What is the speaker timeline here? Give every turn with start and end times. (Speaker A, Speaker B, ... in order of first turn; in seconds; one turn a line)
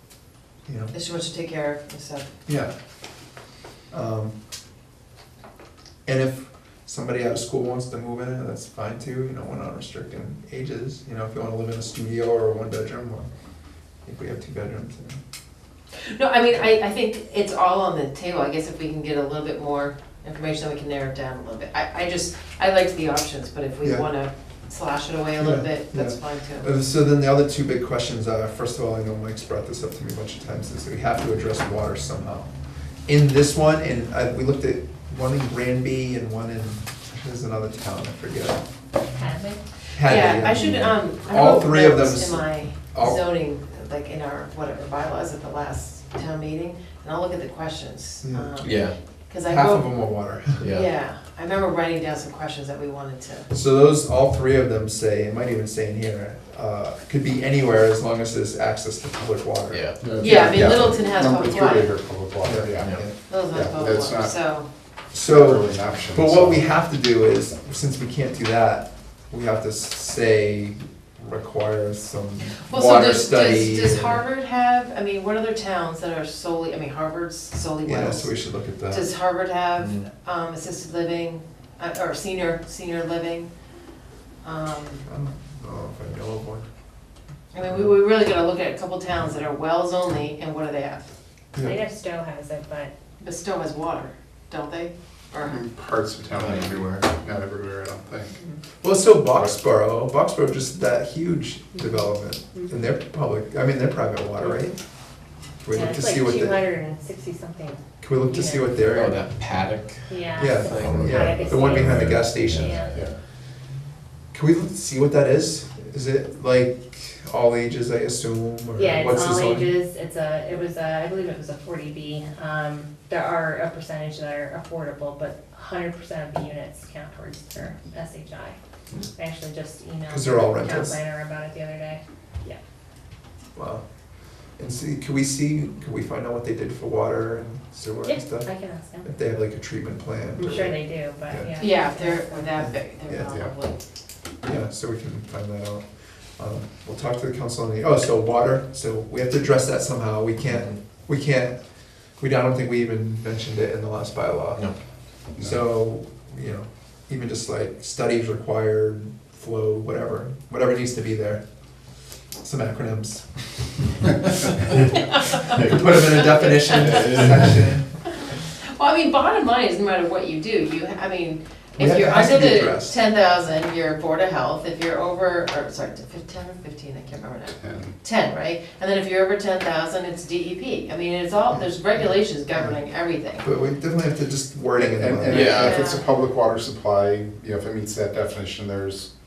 Speaker A: 0.7-0.9
Speaker B: 0.9-2.3
Speaker A: 2.5-2.7
Speaker A: 3.9-4.3
Speaker A: 6.0-13.3
Speaker A: 14.0-15.2
Speaker B: 16.1-26.7
Speaker A: 25.4-32.5
Speaker A: 33.0-38.6
Speaker C: 39.1-39.6
Speaker A: 39.9-43.2
Speaker B: 40.0-49.9
Speaker A: 48.2-48.8
Speaker D: 48.6-49.0
Speaker A: 49.4-50.7
Speaker D: 50.6-50.9
Speaker B: 50.7-53.5
Speaker A: 53.5-60.6
Speaker D: 59.7-60.1
Speaker E: 60.0-64.3
Speaker B: 60.2-61.9
Speaker A: 62.4-63.1
Speaker B: 63.1-64.7
Speaker A: 65.1-74.2
Speaker E: 65.2-66.6
Speaker B: 72.6-78.3
Speaker A: 77.8-79.1
Speaker B: 78.9-83.5
Speaker B: 84.4-85.0
Speaker A: 85.0-86.7
Speaker B: 87.5-91.0
Speaker A: 91.5-91.8
Speaker C: 91.6-92.9
Speaker B: 93.2-95.6
Speaker E: 95.4-98.4
Speaker D: 96.3-97.0
Speaker A: 98.8-104.8
Speaker A: 105.6-106.6
Speaker C: 105.7-108.8
Speaker A: 108.0-109.2
Speaker D: 108.9-110.1
Speaker C: 110.1-113.1
Speaker A: 110.3-112.9
Speaker D: 110.7-112.9
Speaker A: 114.3-119.7
Speaker C: 118.8-128.6
Speaker C: 129.1-132.6
Speaker A: 130.1-131.0
Speaker A: 133.5-133.8
Speaker A: 134.6-138.5
Speaker C: 138.0-139.1
Speaker A: 139.0-141.5
Speaker C: 140.4-142.6
Speaker B: 141.6-143.8
Speaker A: 144.4-145.8
Speaker A: 146.4-151.6
Speaker A: 152.2-154.6
Speaker A: 155.4-161.4
Speaker A: 162.4-163.3
Speaker B: 165.2-165.6
Speaker A: 165.5-167.9
Speaker B: 166.4-167.3
Speaker B: 168.6-183.4
Speaker A: 171.8-172.9
Speaker E: 177.5-177.9
Speaker A: 183.4-185.7
Speaker E: 184.8-189.1
Speaker D: 185.3-185.6
Speaker B: 185.6-186.0